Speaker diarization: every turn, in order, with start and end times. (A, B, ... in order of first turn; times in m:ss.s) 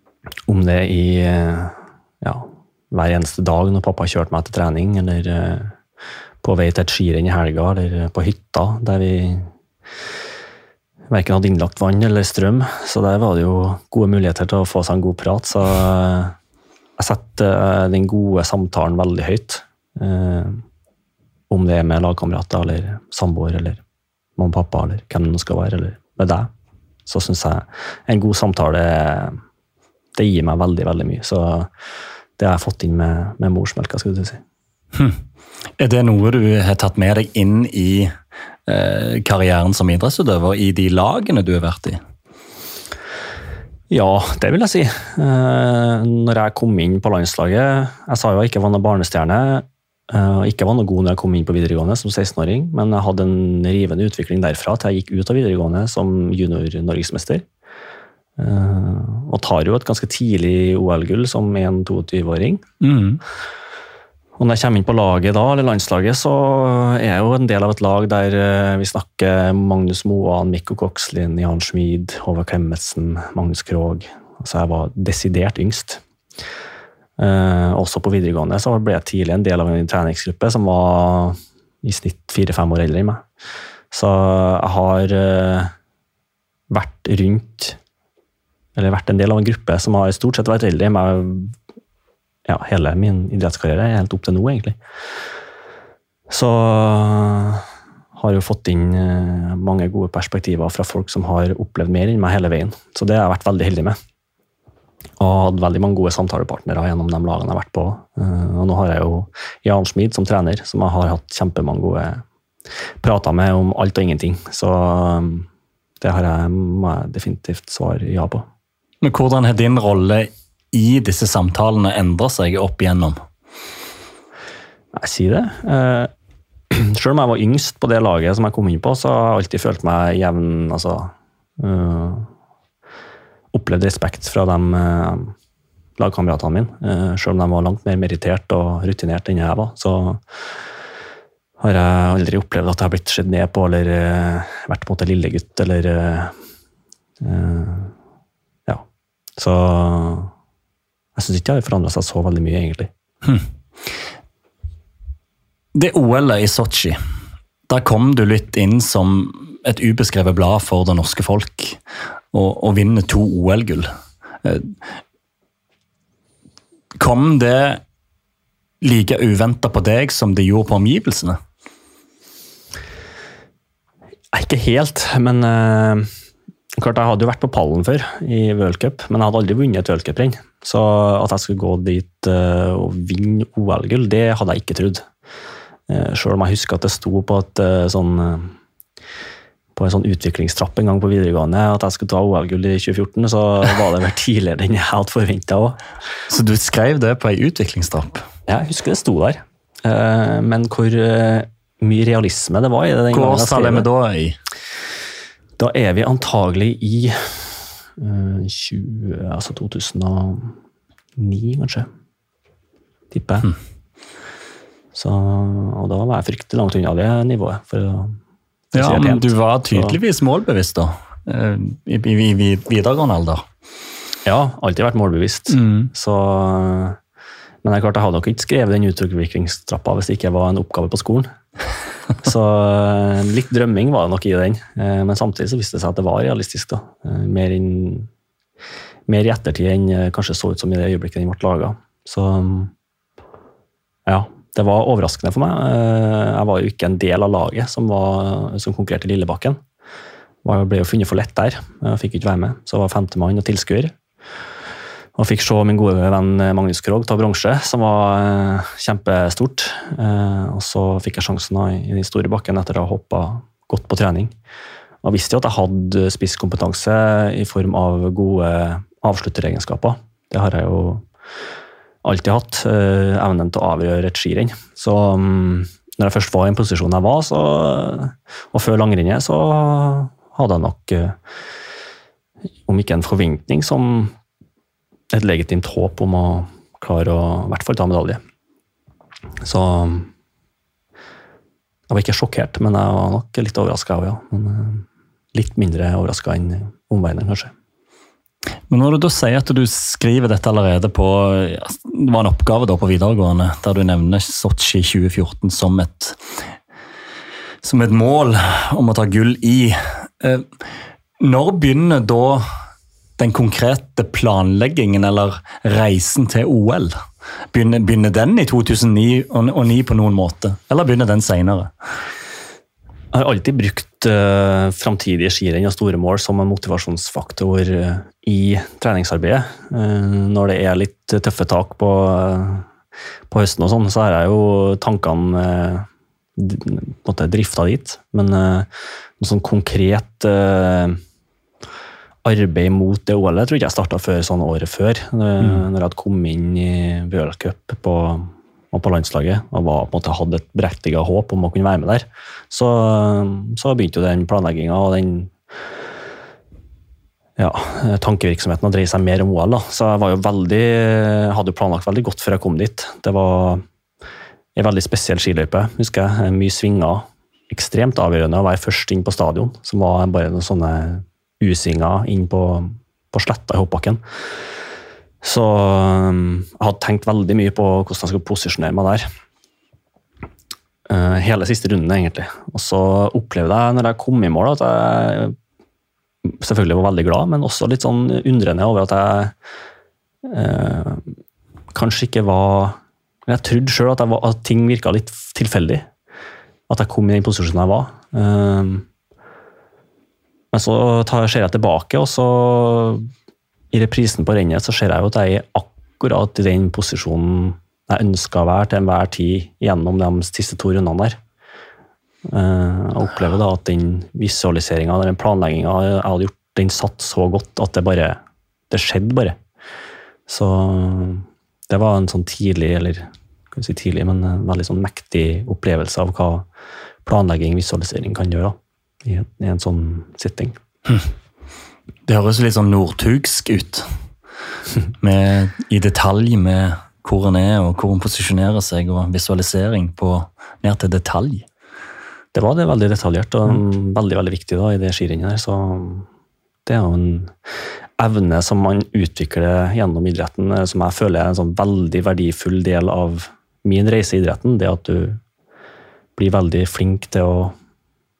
0:00.5-0:05.8 A
0:06.4-0:09.5 A
0:11.1-0:16.4 A
0:17.0-0:20.6 A
0:21.5-0:23.8 A
0:24.4-0:26.5 A
0:27.1-0:29.4 A
0:30.2-0:31.7 A
0:32.4-0:34.4 A
0:35.8-0:38.1 B
0:38.7-0:42.0 B
0:43.9-0:57.4 A
0:58.4-1:02.7 A
1:02.8-1:03.2 B
1:04.4-1:16.0 A
1:17.2-1:23.2 A
1:23.9-1:25.7 A
1:26.7-1:27.8 A
1:28.8-1:31.6 A
1:32.5-1:34.8 A
1:36.3-1:44.0 A
1:45.2-1:52.2 A
1:53.0-1:55.5 A
1:56.0-1:58.5 A
1:59.0-2:03.2 B
2:04.9-2:06.1 A
2:06.7-2:12.3 A
2:13.5-2:15.3 A
2:16.0-2:20.2 A
2:21.6-2:26.4 A
2:27.2-2:27.9 A
2:29.4-2:30.3 A
2:31.2-2:32.9 A
2:35.8-2:37.0 B
2:37.7-2:41.8 B
2:42.3-2:43.9 B
2:44.4-2:44.8 B
2:47.0-2:47.8 B
2:48.8-2:51.4 B
2:54.3-2:56.1 A
2:56.8-3:05.0 A
3:05.9-3:08.5 A
3:09.8-3:15.8 A
3:16.3-3:18.2 B
3:18.5-3:23.9 A
3:23.1-3:24.4 B
3:25.6-3:30.6 A
3:31.2-3:31.9 A
3:33.1-3:33.5 A
3:34.9-3:38.2 A
3:38.7-3:40.0 A
3:38.8-3:43.4 B
3:44.2-3:47.0 A
3:45.5-3:45.9 B
3:47.6-3:51.3 A
3:52.2-3:58.1 A
3:59.1-4:02.7 A
4:04.1-4:09.6 A
4:10.4-4:13.9 A
4:15.2-4:24.3 A
4:25.0-4:31.0 A
4:32.0-4:41.2 A
4:42.7-4:44.1 A
4:45.1-4:48.2 A
4:49.4-4:50.1 A
4:51.9-4:57.5 A
4:58.7-5:06.2 B
5:07.6-5:10.5 B
5:11.2-5:12.4 B
5:13.2-5:17.0 B
5:17.5-5:21.7 B
5:23.1-5:32.7 A
5:33.3-5:41.0 A
5:42.2-5:55.3 A
5:57.4-6:03.6 A
6:04.6-6:14.0 A
6:15.2-6:19.1 A
6:20.9-6:25.4 A
6:26.2-6:29.3 A
6:30.2-6:31.1 A
6:31.7-6:35.9 A
6:36.7-6:38.9 A
6:40.5-6:43.1 A
6:43.7-6:51.2 A
6:52.2-6:59.4 A
7:00.3-7:06.5 A
7:07.0-7:10.6 A
7:12.1-7:13.9 B
7:15.0-7:21.4 B
7:22.3-7:26.1 A
7:26.7-7:27.3 A
7:28.0-7:35.2 A
7:36.2-7:37.6 A